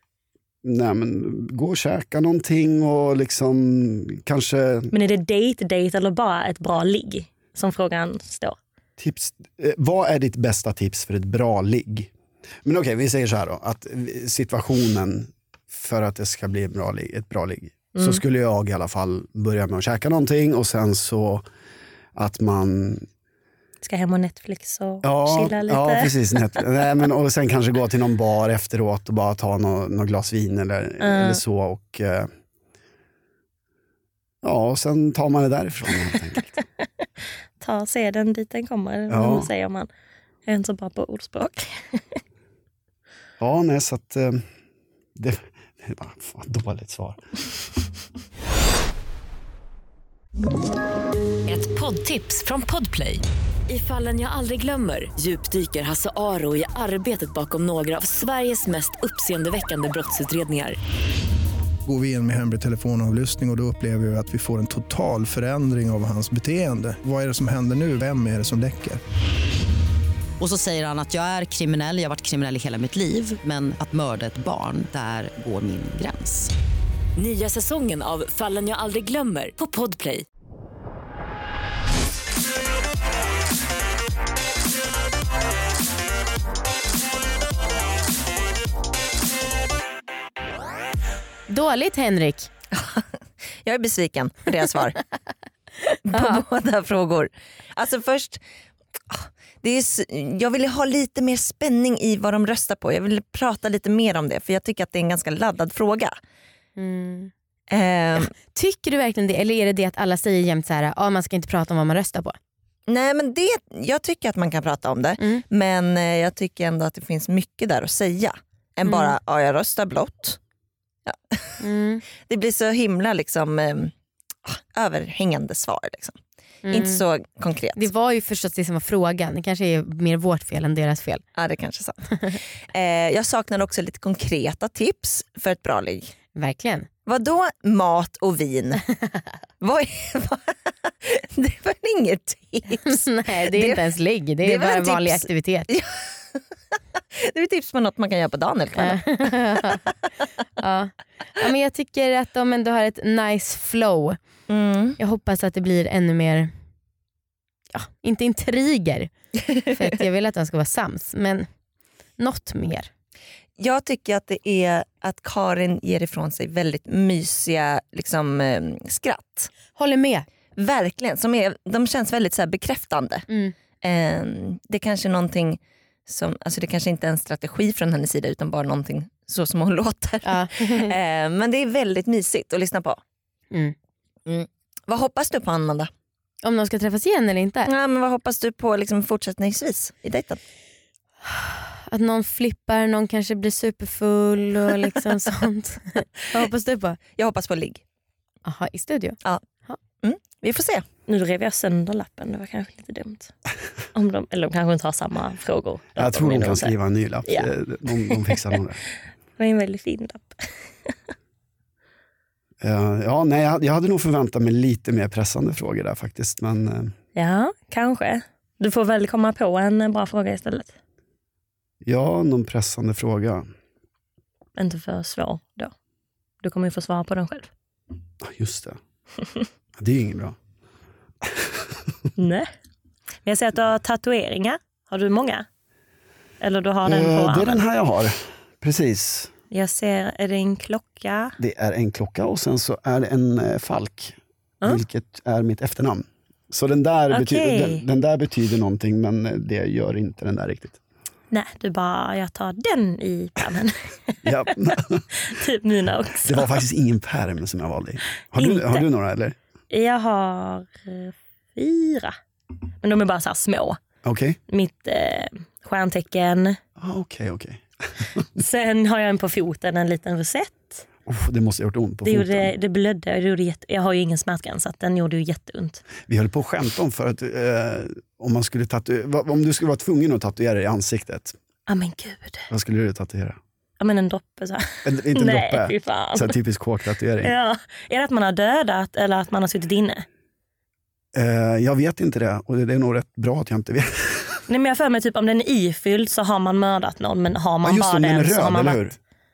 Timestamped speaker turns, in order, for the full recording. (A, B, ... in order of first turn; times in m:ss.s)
0:00.6-0:04.9 A
0:04.9-0:08.6 B
0:09.0-0:12.1 A
0:12.6-0:21.4 A
0:17.9-0:18.2 B
0:22.1-0:23.0 A
0:23.8-0:26.1 B
0:25.0-0:32.3 A
0:31.0-0:31.4 B
0:34.4-0:36.6 A
0:37.6-0:39.9 B
0:39.1-0:39.5 A
0:40.4-0:42.2 B
0:43.4-0:44.4 A
0:45.2-0:47.2 A
0:51.4-1:00.8 C
1:01.8-1:09.0 D
1:10.4-1:16.5 E
1:17.2-1:20.2 C
1:31.5-1:32.5 F
1:32.7-1:33.1 G
1:33.6-1:35.0 G
1:36.0-1:38.4 G
1:36.1-1:36.4 F
1:39.1-1:46.1 G
1:46.8-1:47.3 F
1:47.7-1:48.3 G
1:48.5-1:52.4 F
1:52.9-2:00.4 G
1:58.8-1:59.2 F
2:01.1-2:01.5 G
2:01.6-2:02.0 F
2:02.2-2:03.9 G
2:04.4-2:06.2 G
2:06.6-2:07.0 F
2:06.7-2:07.9 G
2:07.8-2:11.2 F
2:11.4-2:16.1 G
2:16.3-2:16.9 F
2:17.0-2:18.8 G
2:19.6-2:23.8 G
2:22.8-2:25.7 F
2:24.4-2:26.4 G
2:27.2-2:29.2 G
2:28.8-2:29.8 F
2:30.6-2:34.2 F
2:34.5-2:35.0 G
2:35.0-2:36.5 F
2:37.7-2:41.5 F
2:42.2-2:42.9 F
2:43.6-2:49.5 G
2:49.7-2:50.2 F
2:50.6-2:53.3 G
2:53.3-2:53.5 F
2:53.8-3:03.0 G
3:00.2-3:00.9 F
3:04.2-3:05.9 G
3:06.4-3:07.7 F
3:07.6-3:10.4 G
3:11.3-3:17.0 F
3:17.2-3:17.8 G
3:18.4-3:19.8 F
3:20.0-3:20.8 G
3:21.1-3:23.3 B
3:23.9-3:26.7 B
3:26.0-3:28.8 A
3:27.2-3:28.4 B
3:29.4-3:30.9 B
3:32.6-3:36.9 A
3:37.2-3:40.7 B
3:41.8-3:43.5 A
3:44.6-3:45.7 B
3:46.4-3:47.5 B
3:48.2-3:48.8 A
3:49.8-3:50.4 A
3:51.2-3:51.6 A
3:52.2-3:52.5 B
3:53.2-3:55.4 B
3:56.4-3:57.6 B
3:56.8-3:59.3 A
3:59.5-4:01.3 B
4:01.4-4:10.8 A
4:07.1-4:07.8 B
4:11.3-4:14.5 B
4:14.2-4:15.0 A
4:15.2-4:16.6 B
4:16.2-4:19.4 A
4:18.4-4:18.8 B
4:19.7-4:22.2 B
4:22.8-4:23.8 B
4:24.0-4:24.4 A
4:24.5-4:26.6 B
4:26.8-4:28.2 A
4:28.4-4:30.8 B
4:31.0-4:32.5 A
4:32.0-4:35.8 B
4:36.1-4:41.4 A
4:41.7-4:42.5 B
4:42.5-4:43.4 A
4:43.8-4:46.4 B
4:44.8-4:47.3 A
4:47.2-4:50.0 B
4:51.1-4:54.4 A
4:54.5-4:58.9 B
4:57.6-4:59.0 A